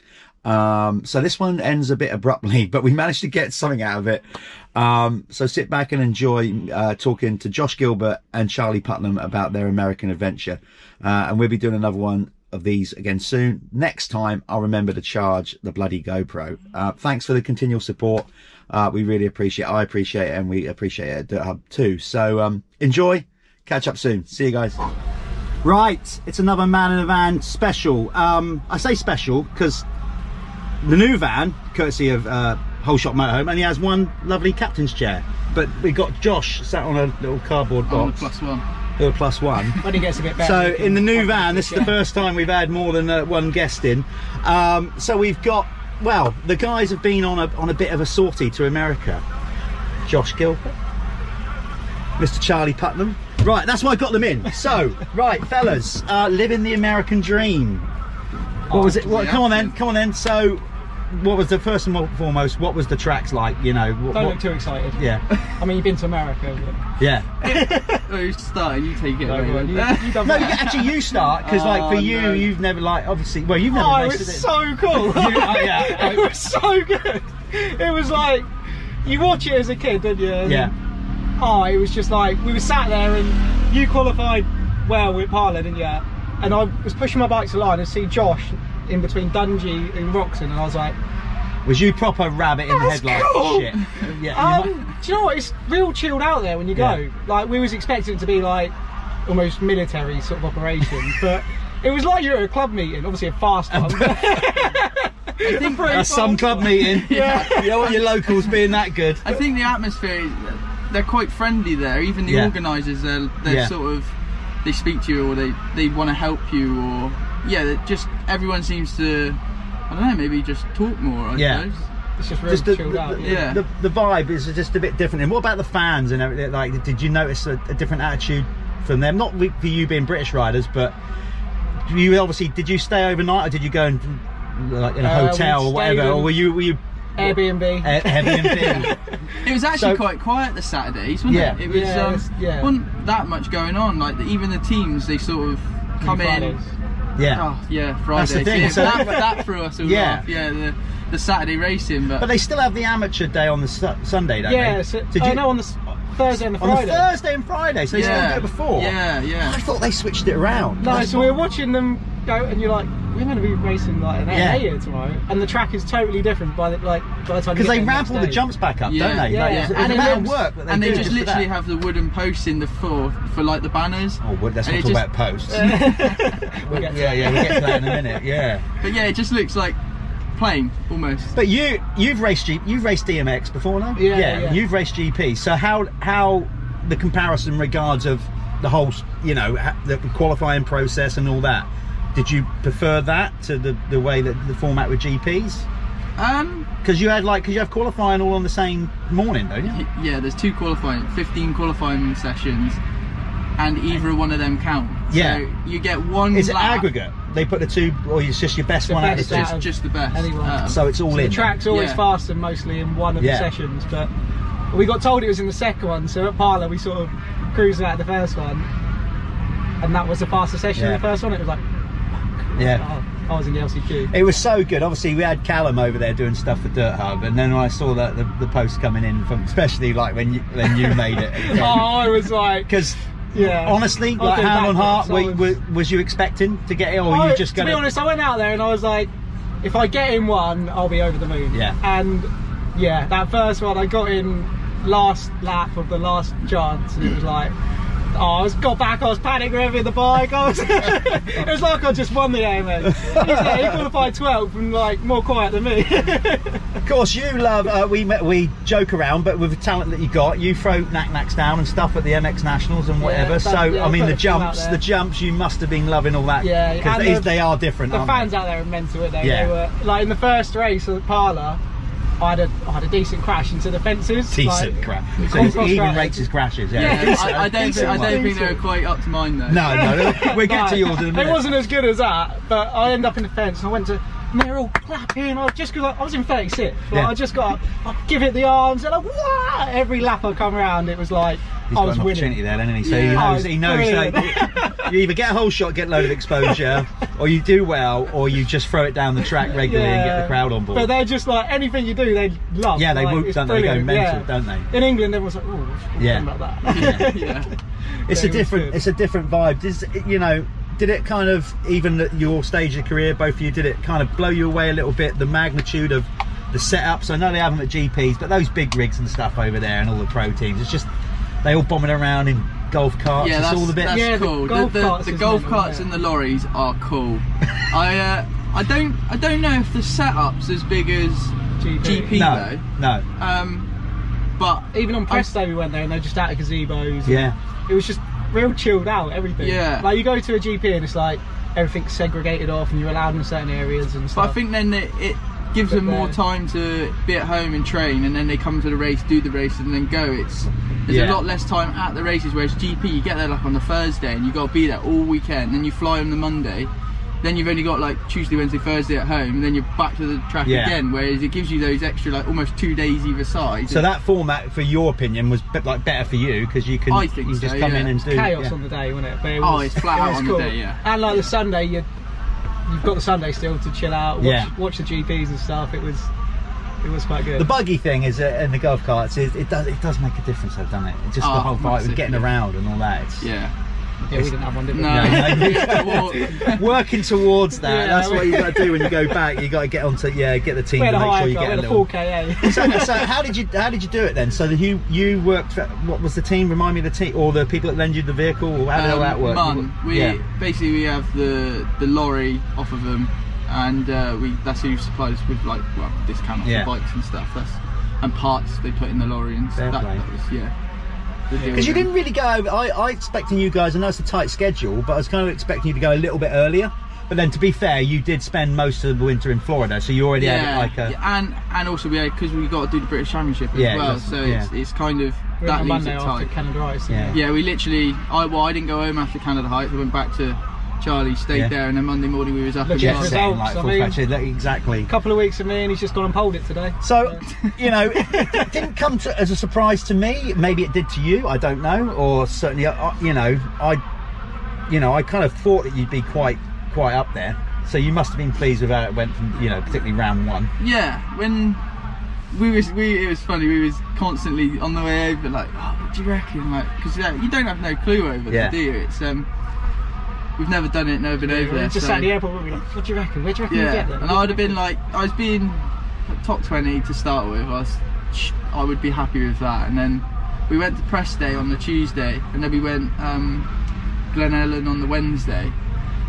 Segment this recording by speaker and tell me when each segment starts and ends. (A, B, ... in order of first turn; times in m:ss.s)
0:00.4-0:04.2 A
0:04.8-0:24.8 A
0:25.6-0:29.8 A
0:30.8-0:38.2 A
0:37.9-0:38.6 B
0:39.0-0:39.8 A
0:39.8-0:42.0 C
0:40.4-0:49.2 A
0:50.0-0:50.7 A
0:52.2-0:57.9 A
0:58.7-0:59.7 B
0:58.7-1:04.4 A
1:04.1-1:06.8 C
1:05.0-1:05.2 A
1:07.0-1:07.3 A
1:07.4-1:08.0 C
1:07.4-1:12.5 B
1:09.2-1:10.6 C
1:10.2-1:16.4 A
1:13.7-1:18.5 C
1:19.0-1:20.7 C
1:20.4-1:20.7 A
1:21.4-1:31.0 C
1:31.6-1:34.7 A
1:32.7-1:33.7 C
1:33.8-1:34.2 B
1:34.2-1:38.7 C
1:36.7-1:37.0 A
1:39.2-1:48.0 C
1:43.7-1:44.8 A
1:45.4-1:47.9 B
1:45.8-1:49.2 A
1:49.2-1:54.1 B
1:52.3-1:52.5 A
1:53.4-1:53.7 A
1:54.6-2:01.8 B
2:01.3-2:01.6 A
2:02.2-2:03.5 C
2:02.5-2:10.9 A
2:03.2-2:03.6 B
2:11.8-2:19.0 A
2:15.0-2:16.4 C
2:17.2-2:19.3 C
2:19.4-2:26.6 B
2:19.7-2:20.0 A
2:21.3-2:21.6 A
2:21.6-2:22.7 C
2:26.0-2:26.7 C
2:27.2-2:27.4 A
2:27.3-2:32.3 B
2:28.1-2:29.3 A
2:28.6-2:29.2 C
2:29.8-2:30.2 A
2:32.2-2:35.5 A
2:34.4-2:37.0 C
2:36.3-2:41.3 A
2:37.9-2:39.6 B
2:38.0-2:38.3 C
2:40.8-2:48.4 C
2:44.3-2:44.6 A
2:47.5-2:51.5 A
2:48.8-2:56.2 B
2:49.2-2:51.1 C
2:54.2-2:55.9 A
2:55.5-2:58.2 C
2:56.6-2:58.6 A
2:58.8-2:59.8 B
3:00.4-3:01.3 B
3:01.4-3:15.6 A
3:04.0-3:04.6 C
3:16.2-3:16.7 B
3:16.8-3:19.8 A
3:19.7-3:22.8 B
3:23.6-3:26.9 B
3:25.1-3:25.4 A
3:26.3-3:29.5 A
3:28.8-3:34.1 C
3:29.1-3:30.8 B
3:30.6-3:31.6 A
3:31.7-3:32.0 B
3:33.2-3:33.5 A
3:34.7-3:38.7 C
3:39.8-3:41.6 C
3:40.7-3:41.0 A
3:42.3-3:44.1 C
3:42.6-3:42.8 A
3:44.1-3:57.9 A
3:50.6-3:52.8 C
3:53.3-3:55.5 C
3:57.1-3:59.1 C
3:59.6-4:07.5 C
4:01.5-4:01.8 A
4:08.1-4:16.8 C
4:12.9-4:13.8 A
4:16.8-4:28.3 A
4:23.0-4:24.8 C
4:26.4-4:31.6 C
4:29.2-4:29.5 A
4:32.2-4:38.6 C
4:34.3-4:38.2 A
4:36.7-4:39.9 B
4:39.5-4:41.5 A
4:39.7-4:52.4 C
4:46.9-4:47.2 A
4:51.7-5:00.9 A
4:52.8-4:53.4 B
4:53.0-4:54.9 C
4:56.1-4:56.8 C
4:59.4-5:08.8 C
5:02.7-5:04.7 A
5:06.0-5:07.1 A
5:06.7-5:07.5 B
5:08.1-5:20.9 A
5:21.4-5:24.1 A
5:23.2-5:32.6 B
5:23.8-5:25.9 C
5:31.6-5:32.2 C
5:32.1-5:33.0 A
5:33.2-5:33.7 B
5:34.4-5:35.3 B
5:34.7-5:44.4 C
5:37.0-5:37.3 A
5:39.4-5:39.9 B
5:44.1-5:56.7 B
5:45.7-5:46.2 C
5:50.9-5:51.2 A
5:57.2-6:03.8 B
6:00.4-6:00.8 A
6:03.7-6:08.5 A
6:06.9-6:07.9 B
6:08.0-6:11.8 C
6:09.4-6:10.8 B
6:12.7-6:16.1 C
6:14.2-6:14.5 A
6:16.8-6:17.5 C
6:17.4-6:23.3 A
6:21.2-6:22.3 B
6:23.2-6:23.5 B
6:24.1-6:26.3 C
6:24.7-6:26.6 B
6:24.8-6:40.2 A
6:27.5-6:29.2 C
6:30.8-6:33.1 C
6:38.7-6:50.5 B
6:46.4-6:46.7 A
6:49.6-6:50.0 A
6:51.3-6:51.9 B
6:51.4-6:51.7 C
6:51.5-7:00.9 A
7:00.2-7:06.3 B
7:03.5-7:04.5 A
7:05.4-7:07.2 C
7:06.9-7:07.2 A
7:07.1-7:13.2 B
7:12.6-7:14.0 C
7:12.8-7:14.9 A
7:14.9-7:17.2 C
7:16.8-7:23.8 A
7:18.2-7:18.4 C
7:24.7-7:30.5 A
7:30.6-7:31.6 B
7:32.3-7:39.3 B
7:38.3-7:38.6 A
7:40.4-7:42.2 B
7:41.2-7:44.6 C
7:43.5-7:53.5 B
7:54.1-7:55.6 B